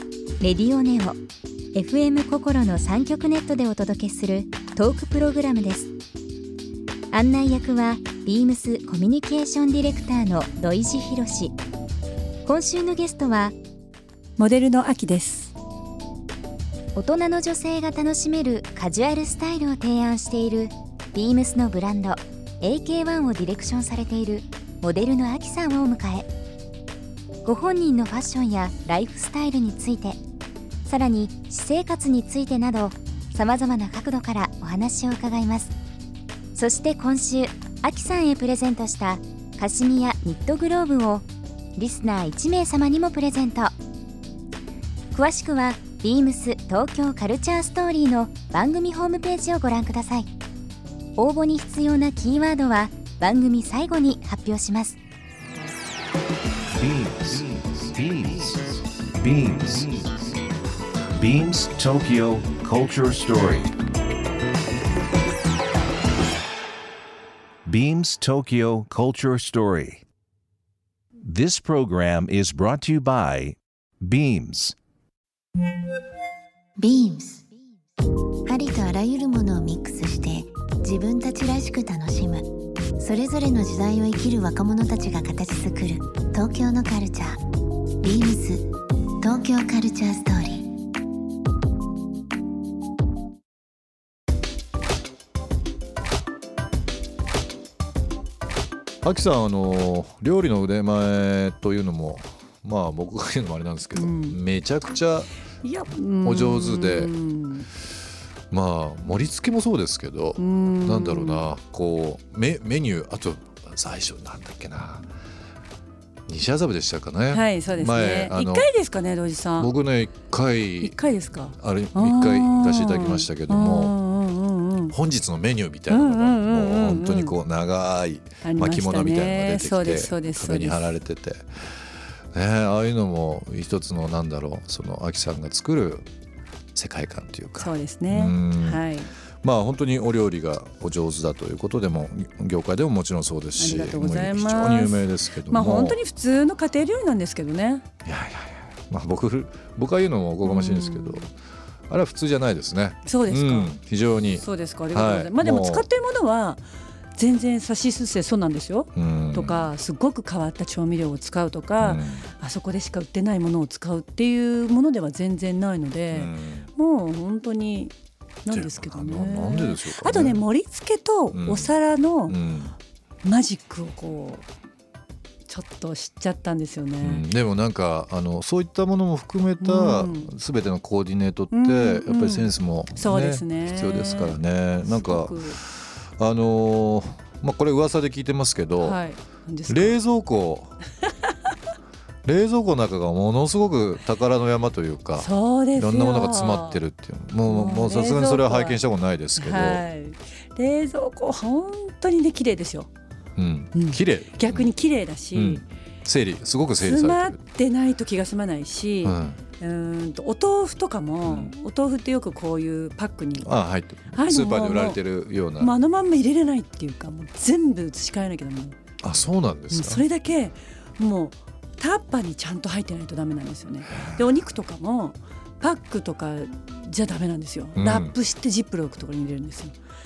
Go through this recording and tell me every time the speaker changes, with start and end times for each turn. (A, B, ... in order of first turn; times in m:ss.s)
0:00.4-0:01.2 A
0:01.7-0:05.9 A
0:07.1-0:11.5 A
0:12.4-0:13.6 A
0:14.4-0:15.5 B
0:16.9-0:26.3 A
0:27.4-0:30.2 A
0:30.8-0:35.7 A
0:36.5-0:43.7 A
0:45.1-0:50.3 A
0:51.2-0:55.0 A
0:56.7-1:00.3 C
1:01.1-1:03.7 C
1:07.6-1:10.0 C
1:11.2-1:14.8 C
1:16.8-1:17.4 D
1:18.5-1:27.4 D
1:28.0-1:28.7 D
1:29.2-1:30.7 D
1:39.0-1:45.3 E
1:43.9-1:44.4 B
1:45.6-1:47.7 B
1:46.2-1:47.1 E
1:48.5-1:55.1 E
1:50.4-1:51.5 B
1:56.3-1:58.7 E
1:57.3-1:59.7 B
1:59.6-2:04.0 E
2:00.8-2:05.0 B
2:04.9-2:11.7 E
2:05.9-2:07.4 B
2:08.4-2:10.9 B
2:12.3-2:16.1 E
2:16.7-2:18.8 E
2:17.6-2:19.1 B
2:19.4-2:26.0 E
2:23.6-2:27.8 B
2:28.0-2:31.3 E
2:30.4-2:31.3 B
2:31.9-2:35.8 E
2:33.0-2:33.7 B
2:34.4-2:36.6 B
2:37.1-2:47.9 B
2:38.9-2:39.7 E
2:41.8-2:42.3 E
2:46.1-2:46.7 E
2:48.4-2:52.4 B
2:48.5-2:50.4 E
2:51.3-2:52.8 E
2:53.2-2:54.4 B
2:55.5-2:57.2 B
2:57.0-3:09.0 E
2:59.6-3:00.3 B
3:01.5-3:05.6 B
3:08.8-3:10.0 B
3:09.7-3:10.8 E
3:12.2-3:19.8 E
3:15.2-3:16.8 B
3:17.4-3:18.8 B
3:19.4-3:22.9 B
3:23.4-3:24.7 E
3:23.7-3:25.6 B
3:25.3-3:27.4 E
3:26.8-3:33.5 B
3:29.0-3:29.4 E
3:31.2-3:31.5 E
3:33.4-3:35.7 E
3:34.1-3:35.0 B
3:35.6-3:38.8 B
3:39.0-3:40.0 E
3:39.7-3:49.7 B
3:47.7-3:48.1 E